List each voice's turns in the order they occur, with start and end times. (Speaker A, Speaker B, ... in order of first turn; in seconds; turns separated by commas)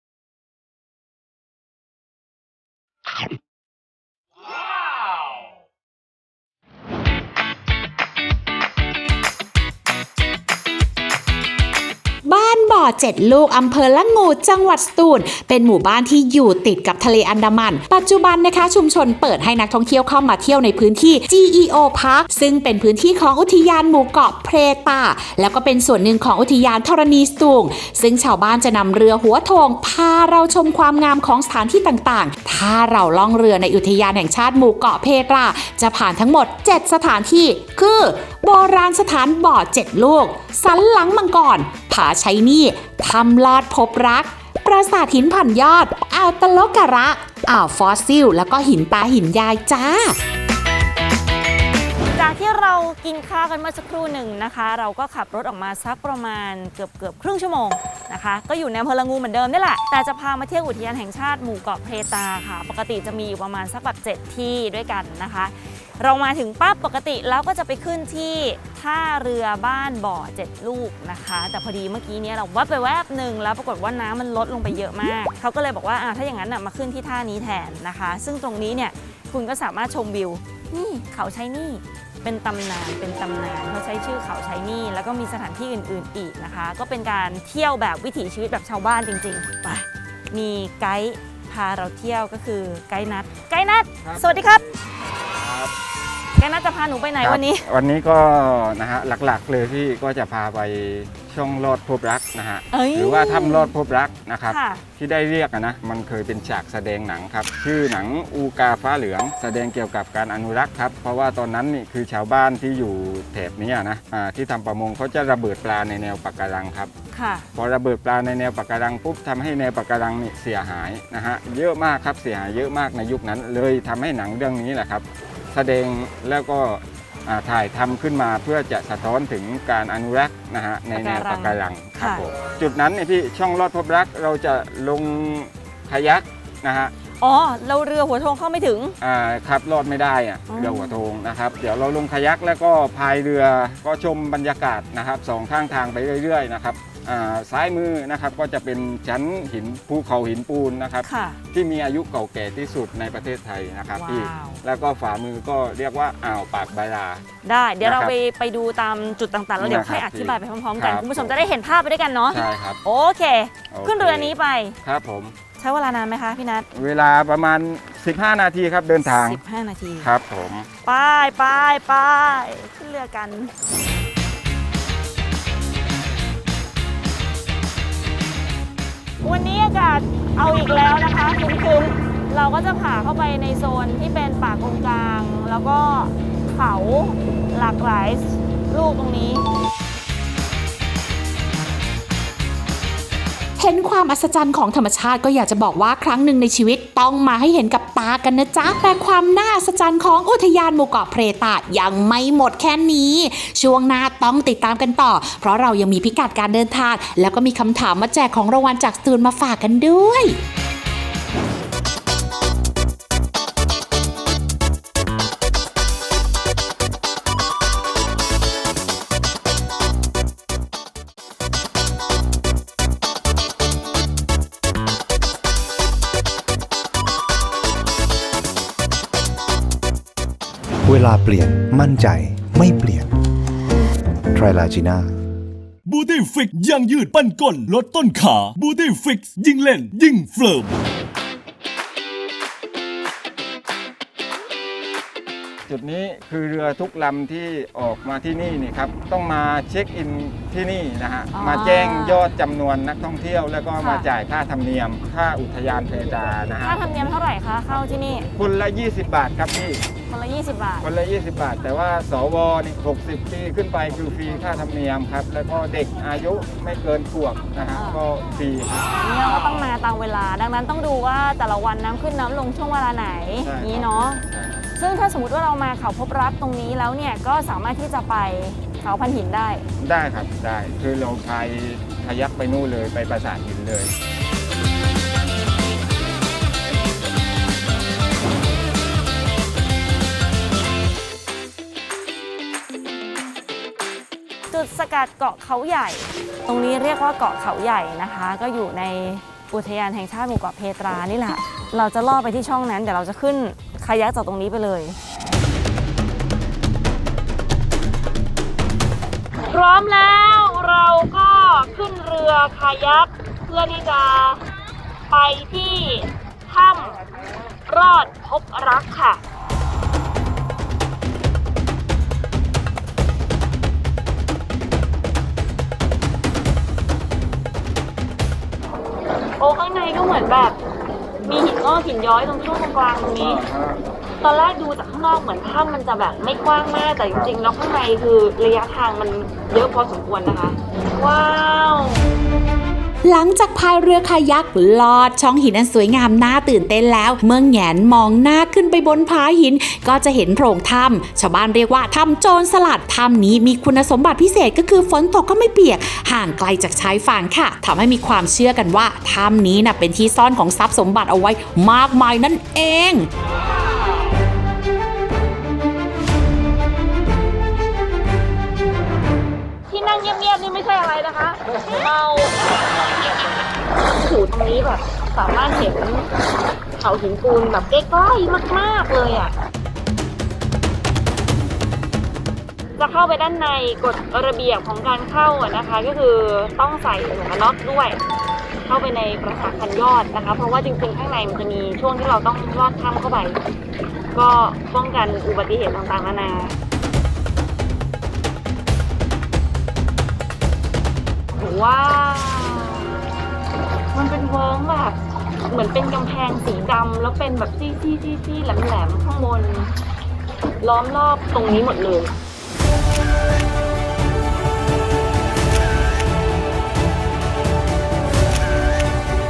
Speaker A: 12.2-50.1, Speaker B: 52.1-94.6, Speaker C: 94.0-95.7, Speaker B: 96.3-97.7, Speaker C: 97.2-116.9, Speaker B: 102.7-103.7, Speaker B: 104.5-104.8, Speaker B: 117.1-117.5, Speaker C: 117.5-136.9, Speaker B: 130.9-132.2, Speaker B: 137.2-138.9, Speaker C: 139.0-157.2, Speaker B: 140.5-141.0, Speaker B: 151.0-151.4, Speaker B: 153.9-154.6, Speaker B: 157.4-164.7, Speaker C: 157.8-158.1, Speaker C: 159.6-161.3, Speaker C: 162.3-162.8, Speaker C: 163.7-164.3, Speaker C: 164.8-165.3, Speaker B: 165.6-166.7, Speaker C: 166.7-169.4, Speaker B: 169.0-170.1, Speaker C: 170.0-170.7, Speaker B: 170.8-173.5, Speaker B: 179.2-189.4, Speaker A: 193.6-210.4, Speaker D: 230.8-233.1, Speaker D: 234.3-235.2, Speaker E: 235.8-240.7, Speaker C: 245.7-257.1, Speaker B: 251.3-252.2, Speaker B: 253.8-254.1, Speaker B: 256.6-258.3, Speaker C: 258.3-259.8, Speaker B: 260.1-260.9, Speaker C: 260.8-269.7, Speaker B: 267.7-268.0, Speaker B: 269.0-274.2, Speaker C: 273.4-274.6, Speaker B: 274.8-279.6, Speaker C: 279.8-283.9, Speaker B: 294.5-304.9, Speaker B: 309.6-314.4, Speaker B: 315.1-317.0, Speaker B: 317.7-319.2, Speaker B: 329.4-330.6, Speaker B: 331.2-333.4, Speaker C: 333.1-333.8, Speaker B: 334.2-342.0, Speaker A: 343.0-363.1, Speaker B: 369.7-372.3, Speaker B: 374.0-375.9, Speaker B: 376.8-379.2, Speaker B: 382.8-388.0, Speaker B: 388.7-393.4, Speaker B: 394.1-396.5, Speaker B: 401.4-402.8, Speaker B: 404.0-404.9, Speaker B: 405.5-409.7, Speaker B: 410.6-412.1